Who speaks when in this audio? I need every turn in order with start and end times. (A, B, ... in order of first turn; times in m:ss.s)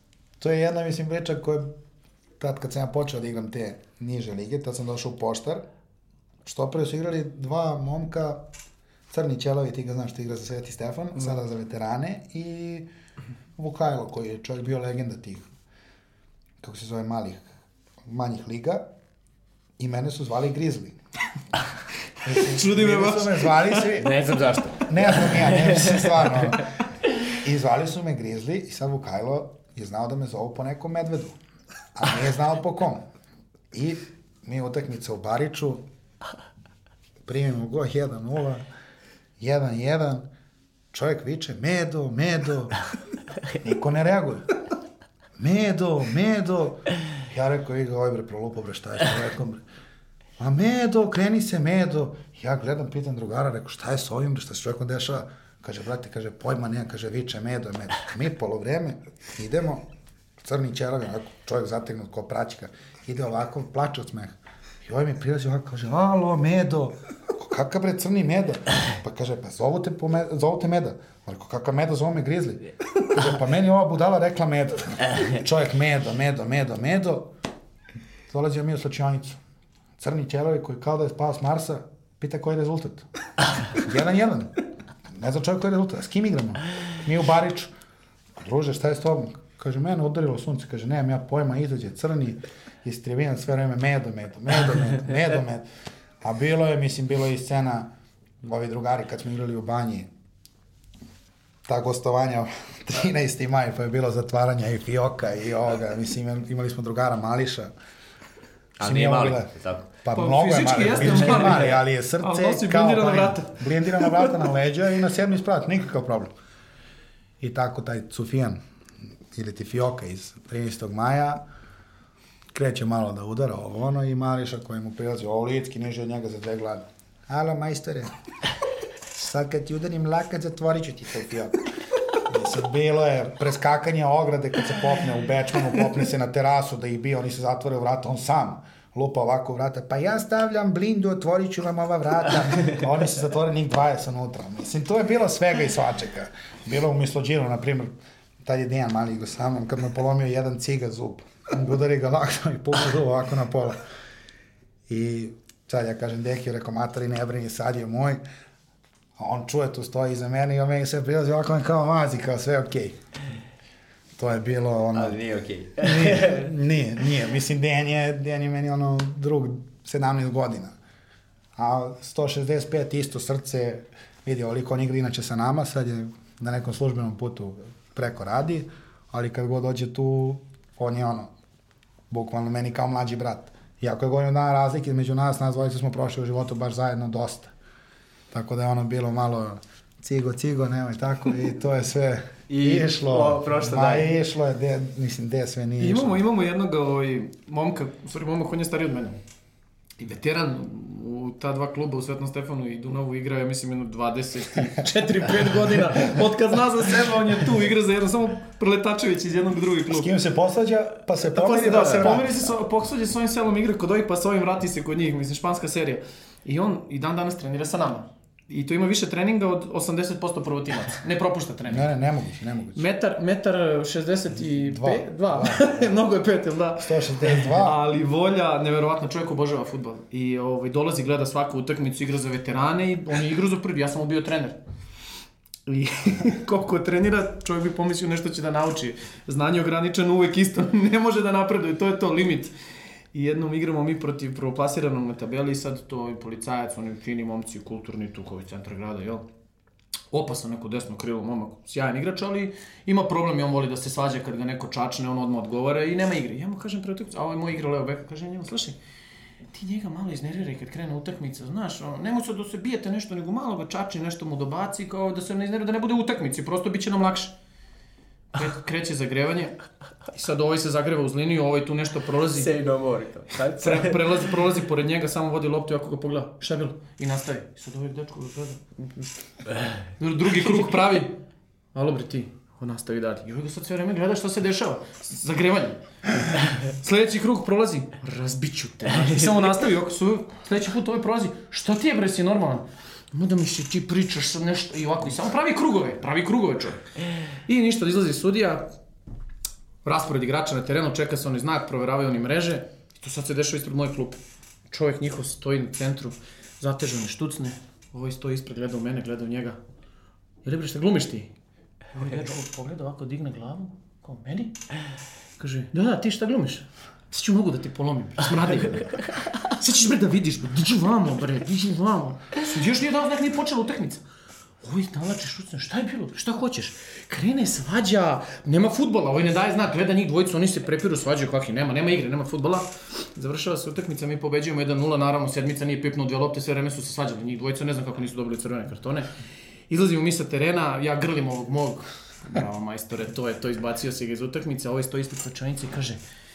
0:00.4-0:01.7 A
0:02.4-0:05.6 A
0:06.4-0:08.4 A
0:09.1-0:12.9 A
0:13.6-0:15.5 A
0:16.6-0:17.4 A
0:18.1-0:18.8 A
0:19.8-0:21.0 A
0:22.2-0:24.2 A
0:22.2-0:23.9 B
0:24.0-0:26.7 C
0:24.9-0:26.7 A
0:27.4-0:31.4 A
0:31.9-0:33.0 A
0:33.7-0:35.8 A
0:37.2-0:38.6 A
0:39.4-0:40.2 A
0:40.9-0:42.7 A
0:43.6-0:44.4 A
0:45.4-0:49.6 A
0:50.4-0:59.8 A
1:00.4-1:17.3 A
1:18.3-1:19.4 A
1:20.0-1:23.0 A
1:23.7-1:24.5 A
1:25.1-1:27.7 A
1:28.4-1:35.6 A
1:36.2-1:37.9 A
1:38.4-1:40.1 A
1:41.6-1:47.7 A
1:48.8-1:49.9 C
1:48.8-1:56.3 A
1:50.1-1:53.6 B
1:57.4-1:58.6 A
1:59.3-2:01.4 A
2:02.5-2:08.1 A
2:09.1-2:11.6 A
2:12.2-2:27.9 A
2:28.4-2:33.8 A
2:34.9-2:38.2 A
2:39.2-2:43.0 A
2:44.2-2:45.2 A
2:44.9-2:46.5 C
2:45.8-2:50.8 A
2:51.6-3:01.3 A
3:02.1-3:07.5 A
3:08.3-3:16.2 A
3:12.5-3:14.1 C
3:15.8-3:19.2 B
3:20.0-3:30.1 B
3:29.9-3:32.5 A
3:31.3-3:41.9 B
3:41.7-3:42.8 A
3:42.7-3:54.6 B
3:44.5-3:45.9 A
3:46.8-3:47.8 A
3:55.6-4:02.5 B
4:03.1-4:09.2 B
4:10.1-4:18.8 B
4:19.5-4:27.3 B
4:28.3-4:29.5 B
4:30.1-4:32.5 B
4:32.3-4:34.2 C
4:33.6-4:39.1 B
4:40.0-4:41.2 B
4:41.7-4:45.8 B
4:46.5-4:56.9 B
4:57.4-4:58.7 B
4:59.8-5:04.2 B
5:04.7-5:09.6 B
5:10.4-5:11.3 B
5:11.9-5:14.6 B
5:15.4-5:24.0 B
5:24.6-5:39.1 B
5:39.7-5:46.0 B